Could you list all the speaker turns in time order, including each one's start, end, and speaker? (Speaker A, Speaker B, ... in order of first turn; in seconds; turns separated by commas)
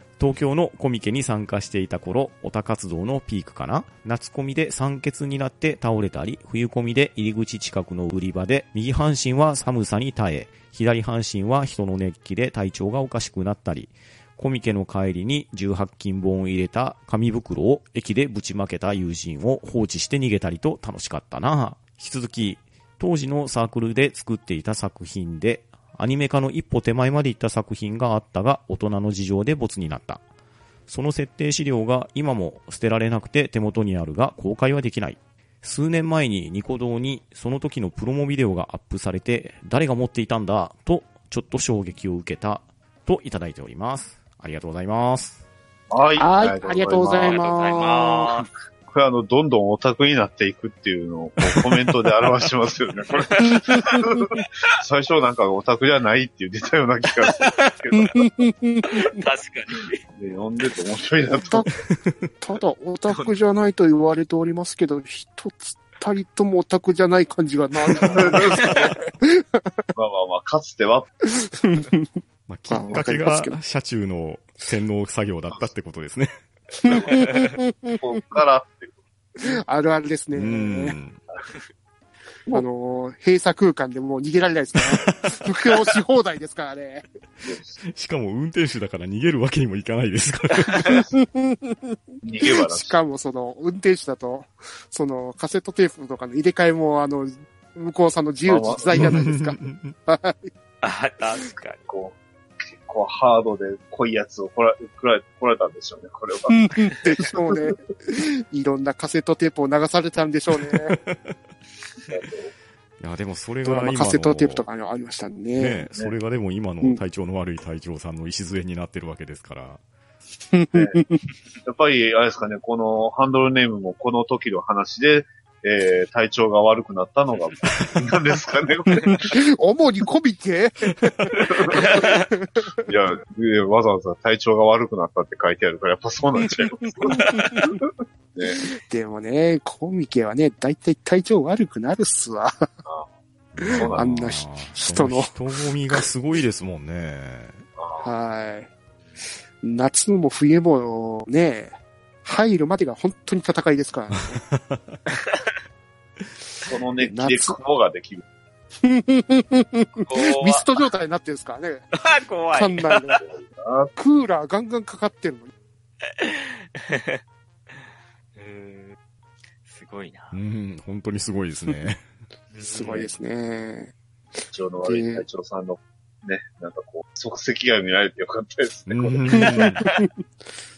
Speaker A: 0.2-30.2, Speaker A: 30.9-45.4, Speaker B: 45.9-47.4, Speaker C: 46.2-48.4, Speaker D: 47.1-48.5, Speaker B: 48.9-58.3, Speaker D: 53.1-53.6, Speaker C: 53.5-54.2, Speaker D: 57.2-57.7, Speaker C: 57.9-59.1, Speaker D: 58.9-60.0, Speaker B: 60.1-61.7, Speaker C: 61.5-61.7, Speaker C: 62.4-69.7, Speaker B: 68.1-68.9, Speaker D: 68.5-68.8, Speaker B: 69.9-71.1, Speaker C: 71.2-73.6, Speaker A: 72.5-76.3, Speaker C: 76.8-78.2, Speaker B: 78.0-79.0, Speaker C: 79.4-81.0, Speaker A: 80.3-81.2, Speaker C: 82.5-87.0, Speaker B: 87.4-87.8, Speaker A: 87.9-91.0, Speaker C: 90.8-100.5, Speaker B: 92.2-93.0, Speaker B: 98.4-99.2, Speaker A: 98.9-99.9, Speaker D: 100.8-101.9, Speaker B: 101.9-107.3, Speaker C: 106.5-111.0, Speaker A: 110.7-111.3, Speaker B: 112.1-112.5, Speaker A: 113.0-114.7, Speaker C: 113.6-115.9, Speaker A: 115.5-119.8, Speaker C: 120.5-121.2, Speaker B: 120.7-121.0, Speaker B: 121.6-129.3, Speaker C: 129.1-132.8, Speaker B: 131.4-132.1, Speaker D: 131.7-132.2, Speaker B: 132.8-138.7, Speaker C: 136.4-137.8, Speaker D: 137.1-137.5, Speaker C: 138.4-142.7, Speaker A: 143.5-147.6, Speaker C: 143.6-145.3, Speaker B: 143.7-144.2, Speaker B: 147.8-148.1, Speaker C: 148.0-148.7, Speaker C: 149.6-154.4, Speaker A: 154.3-155.0, Speaker D: 155.1-155.4, Speaker B: 156.7-158.2, Speaker C: 157.0-157.6, Speaker C: 158.8-162.0, Speaker D: 160.1-160.8, Speaker D: 161.9-163.2, Speaker C: 162.5-163.2, Speaker B: 163.2-163.9, Speaker C: 163.9-165.5, Speaker D: 166.1-167.2, Speaker D: 167.7-168.9, Speaker D: 169.6-170.4, Speaker A: 170.3-172.0, Speaker D: 172.5-173.2, Speaker C: 172.6-173.9, Speaker B: 174.5-179.7, Speaker C: 174.8-175.2, Speaker A: 178.9-179.8, Speaker C: 179.3-180.1